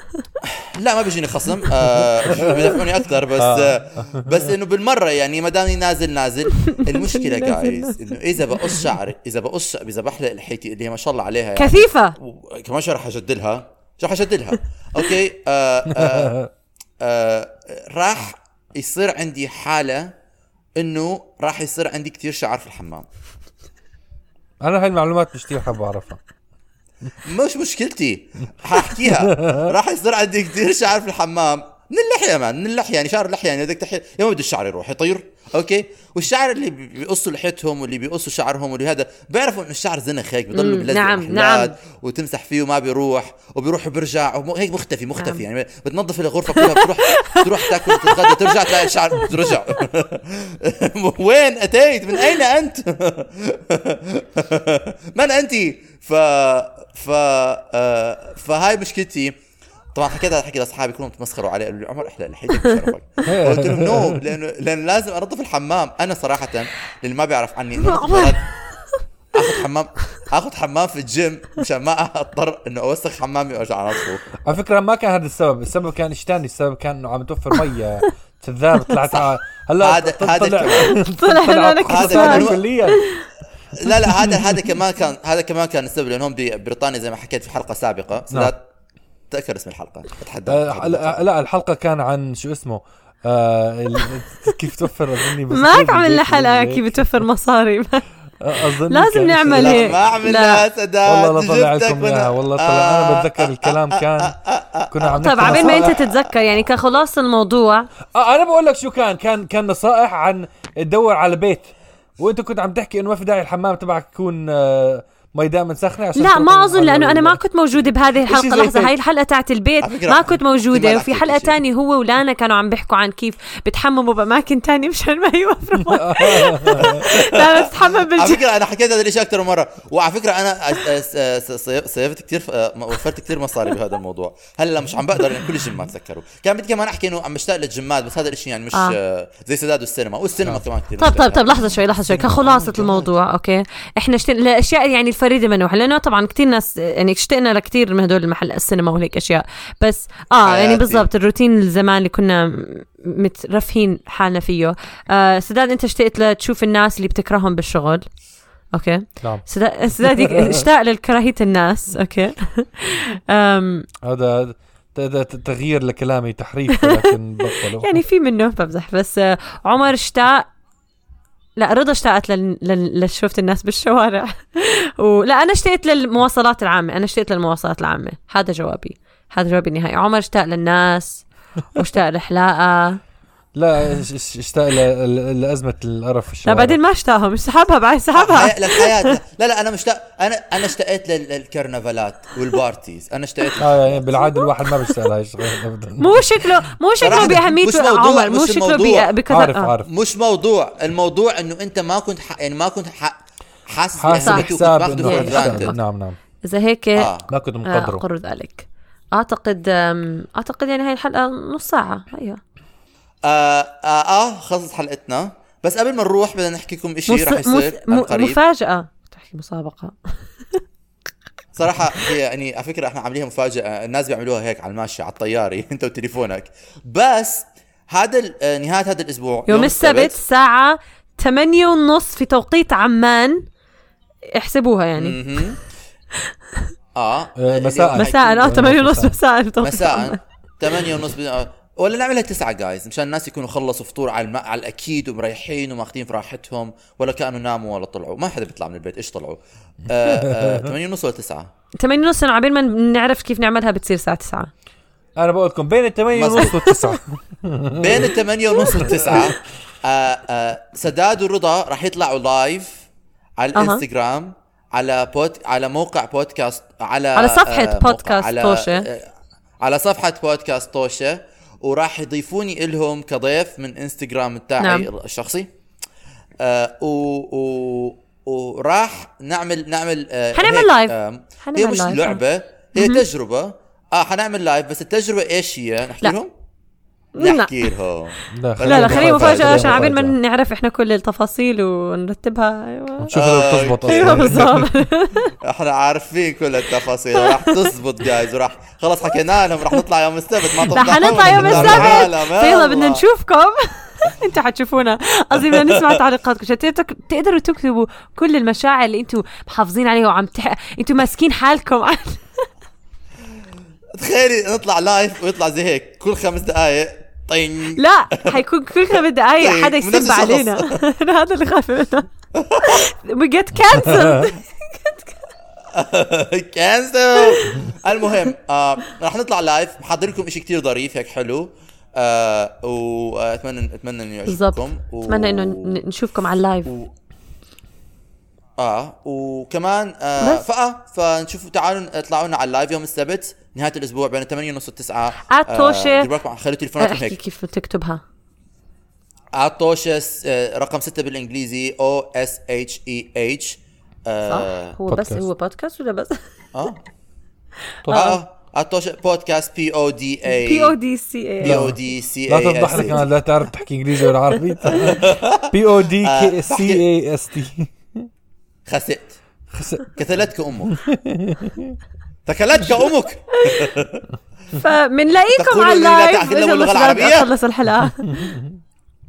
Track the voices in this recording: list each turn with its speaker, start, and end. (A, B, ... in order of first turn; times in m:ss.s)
0:00.5-0:16.4 A
0:01.8-0:02.8 B
0:03.4-0:04.5 B
0:06.6-0:08.0 C
0:11.6-0:12.1 C
0:16.0-0:16.5 B
0:17.0-0:20.1 A
0:20.8-0:23.0 A
0:24.6-0:26.2 B
0:27.2-0:59.3 A
0:29.2-0:29.7 B
0:40.5-0:41.7 C
0:46.5-0:49.3 C
0:59.9-1:08.4 A
1:03.2-1:04.2 B
1:07.8-1:08.3 C
1:09.3-1:14.4 A
1:14.4-1:23.0 B
1:19.1-1:20.9 A
1:21.1-1:23.2 C
1:21.9-1:22.6 A
1:23.8-1:28.6 A
1:29.3-1:31.2 A
1:30.5-1:37.3 B
1:35.5-1:38.0 C
1:38.4-1:40.0 B
1:38.9-1:40.6 C
1:39.5-1:46.2 A
1:41.0-1:44.4 B
1:44.9-1:46.0 B
1:45.2-1:47.9 C
1:48.1-1:57.4 B
1:56.2-2:08.4 C
1:58.3-1:58.9 B
1:59.8-2:01.6 A
2:05.8-2:07.0 B
2:06.8-2:07.6 A
2:08.1-2:23.1 A
2:21.0-2:38.0 C
2:30.4-2:31.1 A
2:38.7-2:43.9 C
2:40.0-2:40.6 B
2:44.0-2:48.0 B
2:46.8-2:47.1 C
2:47.8-2:50.5 C
2:51.6-3:03.0 C
3:03.5-3:06.8 B
3:06.4-3:09.1 C
3:08.1-3:14.1 A
3:13.6-3:17.4 B
3:14.3-3:15.0 C
3:16.0-3:19.7 C
3:17.0-3:19.1 A
3:19.3-3:19.9 B
3:19.8-3:25.7 A
3:24.0-3:26.2 B
3:24.2-3:24.4 C
3:25.0-3:25.8 C
3:26.4-3:27.1 C
3:27.0-3:27.3 A
3:27.3-3:28.0 B
3:27.6-3:32.4 C
3:33.2-3:38.4 A
3:37.1-3:40.0 C
3:41.5-3:50.2 A
3:49.5-3:53.4 C
3:54.3-3:55.2 C
3:55.0-3:55.6 A
3:57.0-3:58.5 A
3:57.4-3:59.2 B
3:57.9-4:00.2 C
3:59.6-4:11.5 A
4:10.2-4:10.7 B
4:11.8-4:14.5 C
4:15.2-4:18.1 B
4:16.1-4:16.6 A
4:16.6-4:16.9 C
4:17.7-4:22.8 A
4:18.8-4:19.2 B
4:23.4-4:29.1 A
4:23.5-4:23.8 C
4:27.2-4:28.9 C
4:29.6-4:35.5 A
4:34.6-4:34.9 C
4:36.4-4:46.3 A
4:40.4-4:42.2 C
4:42.8-4:43.0 C
4:47.2-4:53.1 C
4:47.2-4:49.9 A
4:48.3-4:50.2 B
4:53.0-4:54.7 B
4:53.1-4:54.5 A
4:53.9-4:55.3 C
4:55.4-5:03.0 A
4:57.2-4:57.7 C
5:00.6-5:12.2 C
5:01.2-5:02.1 B
5:05.4-5:06.0 A
5:13.9-5:18.4 A
5:17.8-5:22.1 C
5:18.9-5:20.8 A
5:22.4-5:22.8 A
5:22.6-5:25.2 C
5:23.5-5:24.3 B
5:25.7-5:35.8 A
5:27.2-5:27.6 C
5:34.3-5:36.7 C
5:36.6-5:36.9 A
5:38.6-5:47.2 A
5:40.2-5:40.4 C
5:45.2-5:46.1 C
5:46.8-5:48.0 C
5:49.3-5:54.7 A
5:54.3-5:56.2 C
5:54.9-5:55.3 B
5:57.9-5:58.2 C
5:57.9-6:00.8 A
6:00.3-6:01.7 C
6:01.4-6:03.0 A
6:01.4-6:08.1 B
6:04.6-6:06.8 A
6:08.7-6:09.2 A
6:09.5-6:09.9 B
6:10.0-6:10.8 A
6:10.7-6:11.8 B
6:12.3-6:14.1 A
6:13.3-6:13.7 C
6:14.5-6:18.2 C
6:15.4-6:17.3 A
6:18.0-6:18.6 B